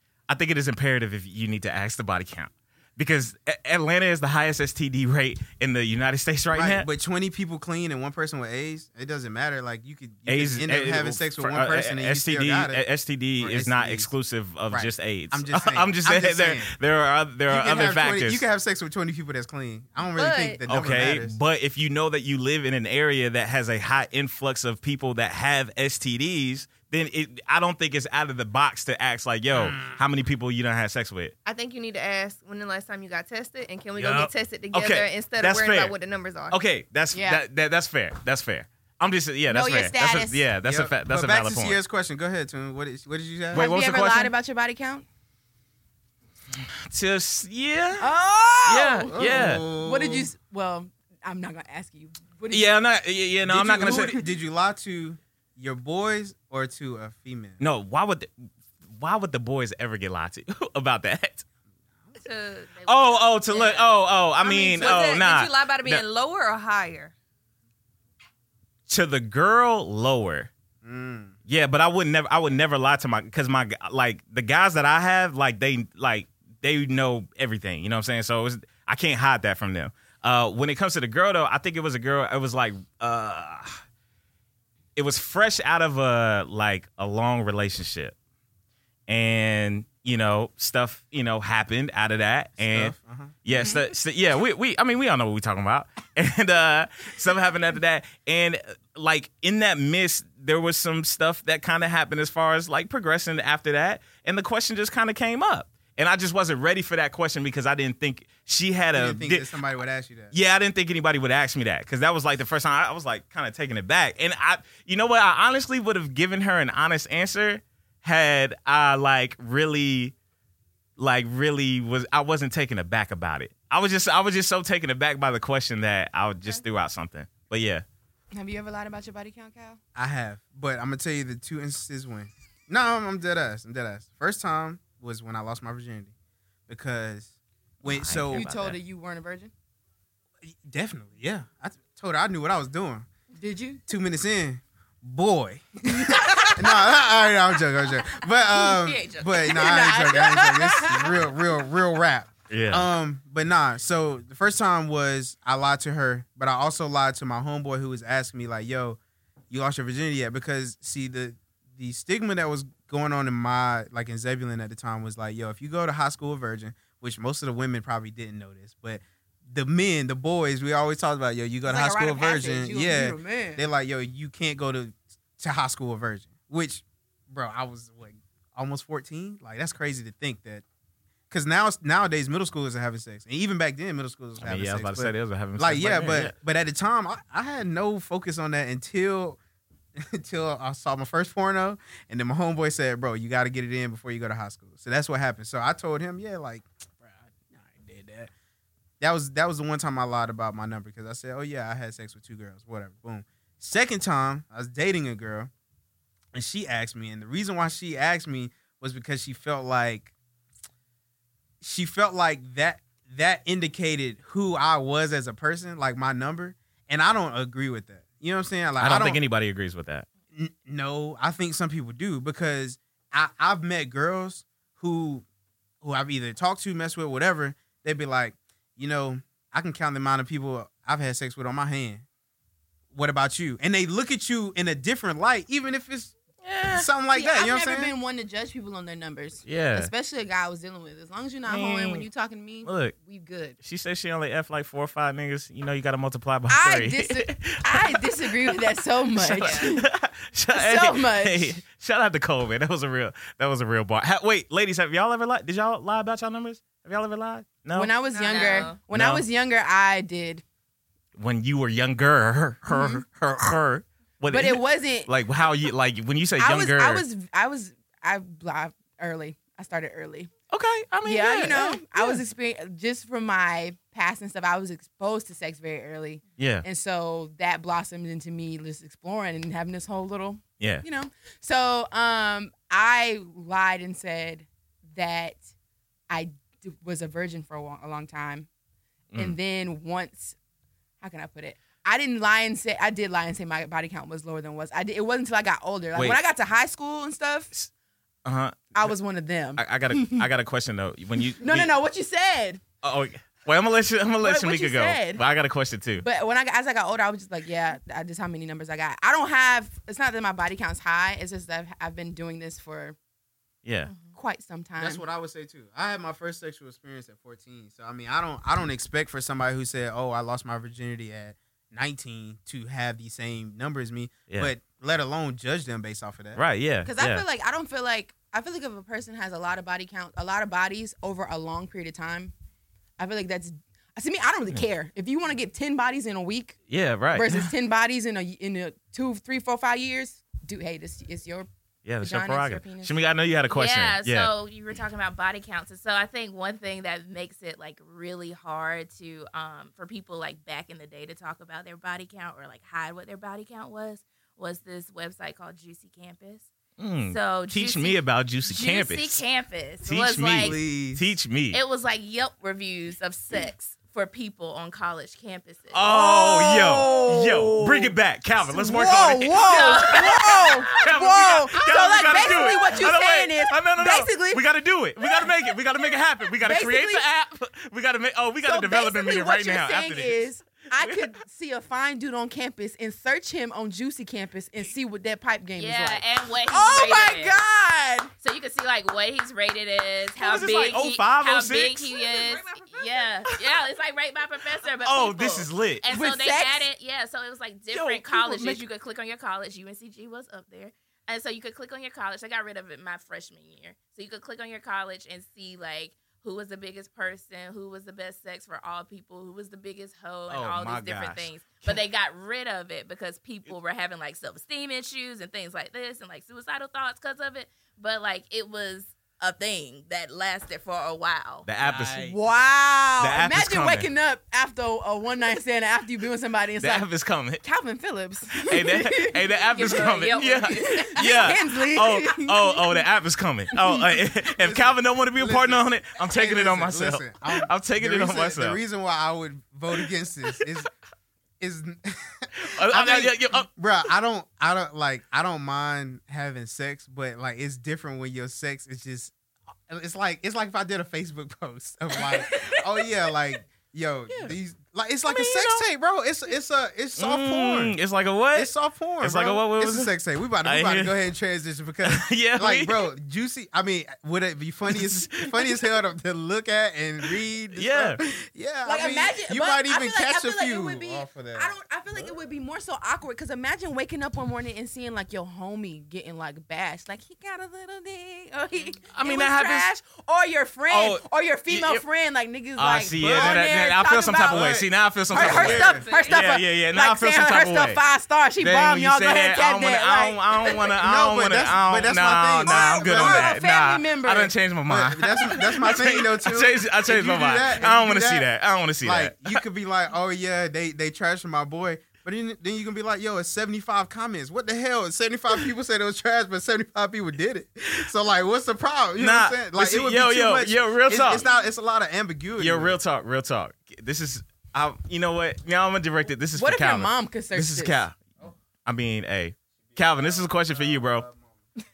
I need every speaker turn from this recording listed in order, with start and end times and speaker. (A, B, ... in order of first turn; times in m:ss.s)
0:00.3-0:06.9 A
0:06.5-0:12.8 B
0:10.3-0:18.4 A
0:13.4-0:14.1 B
0:14.7-0:16.8 B
0:17.5-0:21.4 B
0:20.1-0:20.6 C
0:20.7-0:31.3 A
0:29.6-0:29.9 B
0:31.4-0:36.6 C
0:34.0-0:35.9 A
0:36.5-0:41.8 A
0:37.1-0:37.4 D
0:39.5-0:40.4 D
0:40.6-0:43.7 B
0:43.5-0:44.3 A
0:43.5-0:45.0 D
0:46.6-0:48.1 A
0:48.0-0:52.7 D
0:48.6-0:49.6 A
0:49.1-0:50.3 B
0:52.5-0:54.2 A
0:53.4-0:57.6 B
0:53.8-0:54.2 D
0:57.6-0:58.3 A
0:58.9-1:01.4 A
1:02.2-1:02.8 C
1:02.7-1:03.8 E
1:02.8-1:06.0 A
1:03.5-1:03.8 C
1:04.4-1:07.1 C
1:08.9-1:10.5 A
1:10.8-1:11.4 B
1:11.5-1:23.8 A
1:25.0-1:28.2 A
1:29.1-1:49.5 A
1:32.6-1:33.3 B
1:33.5-1:33.8 D
1:48.9-1:50.3 B
1:50.3-2:00.1 A
2:01.0-2:07.8 A
2:08.3-2:09.8 D
2:09.9-2:16.1 B
2:16.7-2:18.4 B
2:17.8-2:18.8 A
2:18.3-2:19.5 D
2:20.4-2:23.1 B
2:23.4-2:23.8 D
2:23.9-2:39.0 B
2:25.9-2:26.9 D
2:28.5-2:29.7 E
2:29.4-2:31.4 D
2:32.5-2:32.9 A
2:39.5-3:00.6 B
2:51.6-2:53.6 D
3:01.3-3:09.4 B
3:04.4-3:06.3 A
3:10.0-3:18.3 B
3:19.0-3:25.5 B
3:26.3-3:30.1 B
3:31.6-3:39.2 B
3:38.8-3:40.0 A
3:40.3-3:45.2 B
3:45.8-3:52.0 B
3:52.9-3:56.2 B
3:56.6-4:03.6 D
3:56.7-3:57.9 B
3:59.4-3:59.9 A
4:01.4-4:02.0 A
4:02.6-4:02.9 A
4:03.6-4:17.9 A
4:06.5-4:09.8 D
4:09.4-4:09.7 E
4:10.5-4:11.6 D
4:17.7-4:20.4 D
4:18.1-4:18.7 C
4:18.2-4:18.8 E
4:18.8-4:19.2 A
4:21.2-4:27.0 A
4:22.6-4:23.0 D
4:24.3-4:25.1 D
4:26.4-4:30.3 D
4:30.5-4:32.2 A
4:31.0-4:45.4 D
4:36.4-4:36.6 A
4:46.1-4:48.5 D
4:49.1-4:49.4 A
4:49.1-4:50.4 D
4:51.0-4:57.5 D
4:58.2-4:58.9 A
4:58.7-5:00.3 D
4:59.6-5:01.7 A
5:01.4-5:02.6 D
5:02.8-5:06.0 A
5:04.2-5:05.2 D
5:06.0-5:13.0 D
5:13.6-5:13.9 A
5:13.9-5:14.2 E
5:14.1-5:15.0 D
5:14.8-5:26.4 B
5:26.3-5:27.2 A
5:26.8-5:32.3 D
5:33.0-5:36.6 D
5:36.7-5:37.5 A
5:37.1-5:41.5 D
5:41.8-5:44.3 A
5:42.0-5:43.0 D
5:43.5-5:56.5 E
5:56.8-5:59.2 A
5:57.0-6:00.6 E
5:59.8-6:01.6 A
6:00.3-6:01.1 B
6:01.5-6:05.9 E
6:05.7-6:21.1 A
6:05.9-6:14.4 D
6:09.4-6:10.9 E
6:16.4-6:17.0 D
6:18.4-6:28.1 D
6:25.6-6:27.4 E
6:28.2-7:01.5 E
6:30.2-6:31.9 A
6:31.9-6:33.1 C
6:34.8-6:35.8 A
6:35.9-6:36.7 D
6:37.7-6:38.6 A
6:50.3-6:51.8 A
7:01.4-7:02.2 A
7:01.8-7:06.9 D
7:03.0-7:03.9 A
7:06.6-7:07.4 A
7:07.4-7:09.9 D
7:08.3-7:18.6 A
7:09.5-7:11.1 E
7:10.5-7:12.8 D
7:13.5-7:13.9 D
7:14.4-7:20.7 B
7:21.4-7:29.1 B
7:22.4-7:23.5 A
7:29.7-7:37.8 B
7:32.1-7:32.6 A
7:34.1-7:34.3 A
7:35.0-7:35.6 A
7:37.0-7:40.9 A
7:38.3-7:52.1 B
7:41.8-7:42.9 A
7:44.7-7:45.6 A
7:47.0-7:48.0 A
7:48.6-8:04.5 D
7:58.9-7:59.7 A
8:00.7-8:01.8 A
8:02.6-8:07.8 A
8:03.0-8:03.5 B
8:04.2-8:05.8 B
8:05.1-8:10.6 D
8:05.2-8:06.2 E
8:08.4-8:19.4 A
8:10.8-8:13.4 B
8:12.4-8:14.3 D
8:14.7-8:18.3 B
8:15.7-8:16.0 D
8:18.8-8:32.8 B
8:29.0-8:31.2 A
8:32.4-8:38.0 A
8:36.3-8:37.8 D
8:38.6-8:41.1 A
8:39.7-8:41.2 B